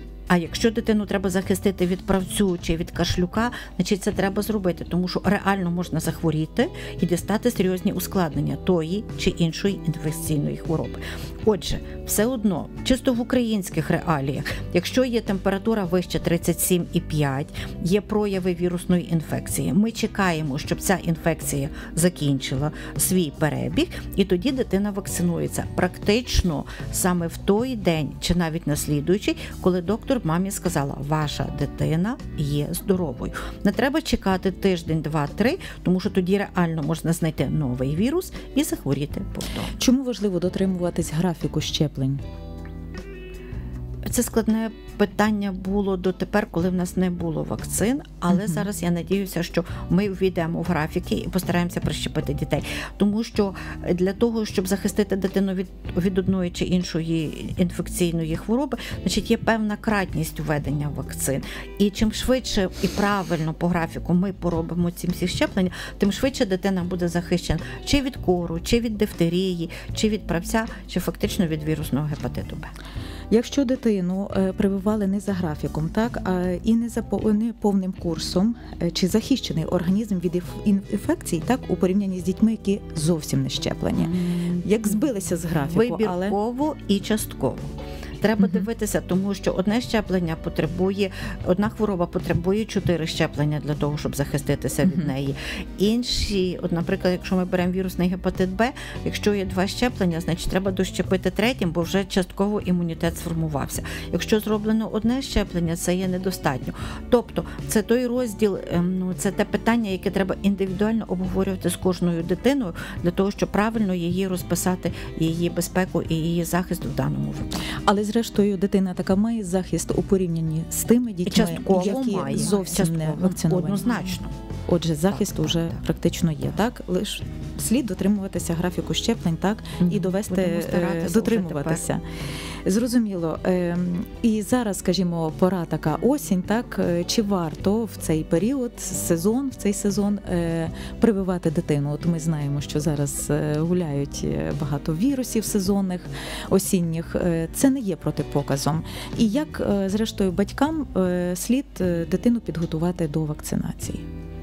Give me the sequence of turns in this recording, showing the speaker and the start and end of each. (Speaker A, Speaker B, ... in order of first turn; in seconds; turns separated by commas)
Speaker A: 0.3-39.7, Speaker B: 39.8-42.2, Speaker A: 44.0-72.7, Speaker B: 48.3-48.7, Speaker B: 73.3-86.3, Speaker A: 84.0-85.0, Speaker A: 85.6-117.6, Speaker B: 88.4-88.7, Speaker B: 94.8-95.1, Speaker B: 117.8-124.1, Speaker A: 121.2-124.3, Speaker B: 124.7-132.0, Speaker A: 129.8-131.8, Speaker B: 132.6-154.0